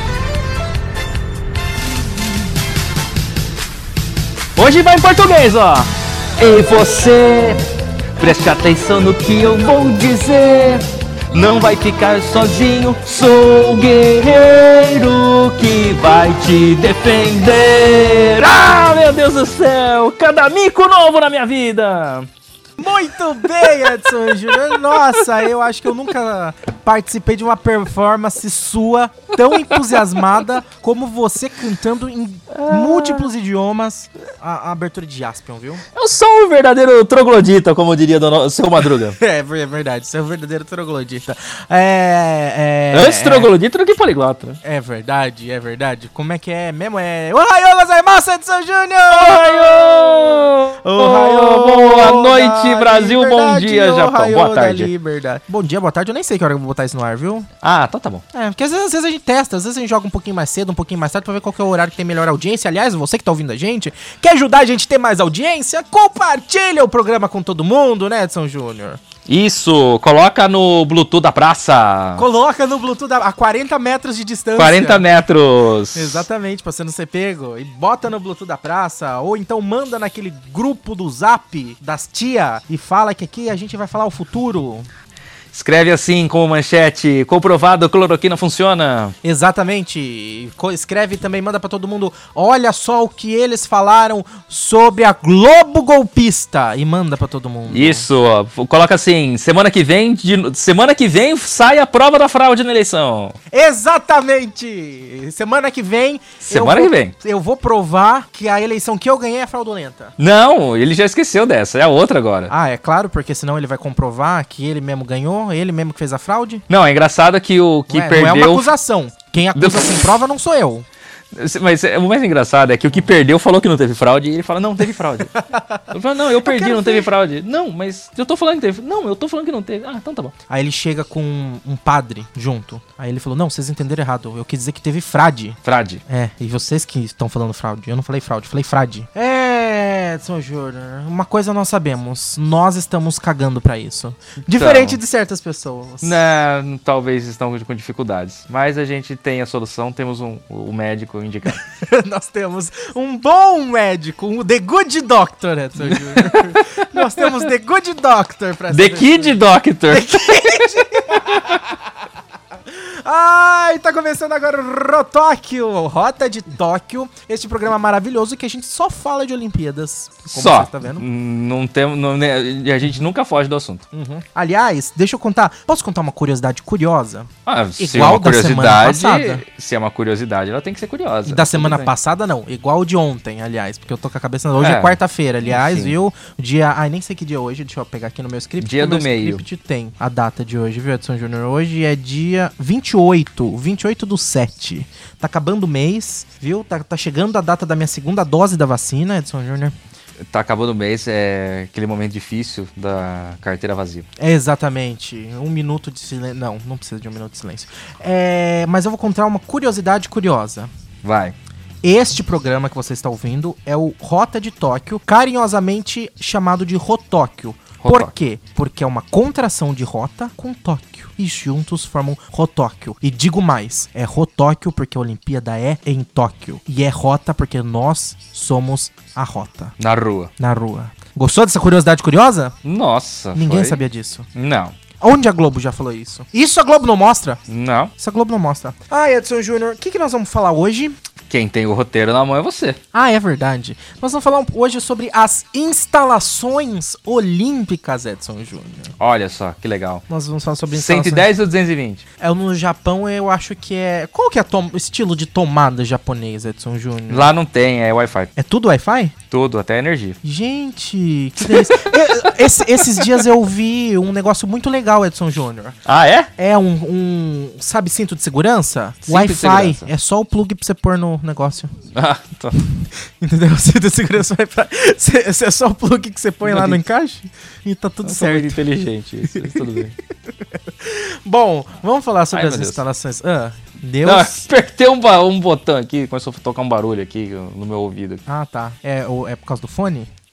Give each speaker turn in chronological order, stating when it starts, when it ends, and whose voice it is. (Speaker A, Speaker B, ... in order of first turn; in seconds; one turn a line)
Speaker A: 4.5-7.6
Speaker A: 8.2-22.3
Speaker B: 22.8-35.8
Speaker A: 23.4-25.3
Speaker A: 29.4-29.7
Speaker A: 32.6-33.3
Speaker A: 35.9-39.2
Speaker B: 39.0-43.5
Speaker A: 42.9-44.6
Speaker B: 44.6-57.5
Speaker A: 49.1-54.9
Speaker A: 57.6-58.2
Speaker B: 58.3-69.0
Speaker A: 69.2-72.2
Speaker B: 72.2-75.0
Speaker A: 74.5-76.3
Speaker B: 75.9-84.9
Speaker A: 85.5-89.1
Speaker B: 89.2-98.1
Speaker A: 97.7-103.3
Speaker B: 103.5-110.1
Speaker A: 106.5-107.1
Speaker A: 110.2-112.5
Speaker B: 112.5-116.6
Speaker A: 116.7-118.7
Speaker B: 117.9-120.8
Speaker A: 119.5-120.0
Speaker A: 121.3-125.3
Speaker B: 125.4-125.8
Speaker A: 125.9-130.3
Speaker B: 126.4-127.0
Speaker B: 130.5-146.2
Speaker A: 135.6-136.0
Speaker A: 144.4-145.0
Speaker A: 146.0-151.6
Speaker B: 151.7-161.9
Speaker A: 155.9-157.4
Speaker A: 158.7-161.6
Speaker B: 162.7-171.0
Speaker A: 170.3-173.8
Speaker B: 173.9-179.4
Speaker A: 177.4-181.9
Speaker B: 181.2-199.7
Speaker A: 184.6-185.9
Speaker A: 188.6-189.4
Speaker A: 200.2-204.1
Speaker B: 204.2-210.7
Speaker A: 211.0-211.3
Speaker B: 211.8-229.8
Speaker A: 217.8-218.1
Speaker A: 229.8-230.3
Speaker B: 230.4-232.5
Speaker A: 232.6-233.8
Speaker B: 233.3-234.3
Speaker A: 234.3-234.7
Speaker B: 235.0-237.4
Speaker A: 237.5-237.9
Speaker B: 238.0-240.9
Speaker A: 241.3-242.8
Speaker B: 242.9-248.9
Speaker A: 249.0-250.0
Speaker B: 250.1-251.3
Speaker A: 250.7-252.0
Speaker B: 252.2-257.3
Speaker A: 257.1-258.3
Speaker B: 258.4-259.1
Speaker A: 259.3-260.2
Speaker B: 260.2-265.8
Speaker A: 261.4-263.2
Speaker A: 265.9-266.3
Speaker B: 266.4-271.7
Speaker A: 269.1-269.9
Speaker A: 271.9-272.6
Speaker B: 273.2-278.6
Speaker A: 276.4-276.8
Speaker A: 278.0-279.9
Speaker B: 279.3-279.7
Speaker B: 280.8-284.5
Speaker A: 282.3-282.8
Speaker A: 284.0-288.2
Speaker B: 288.3-290.1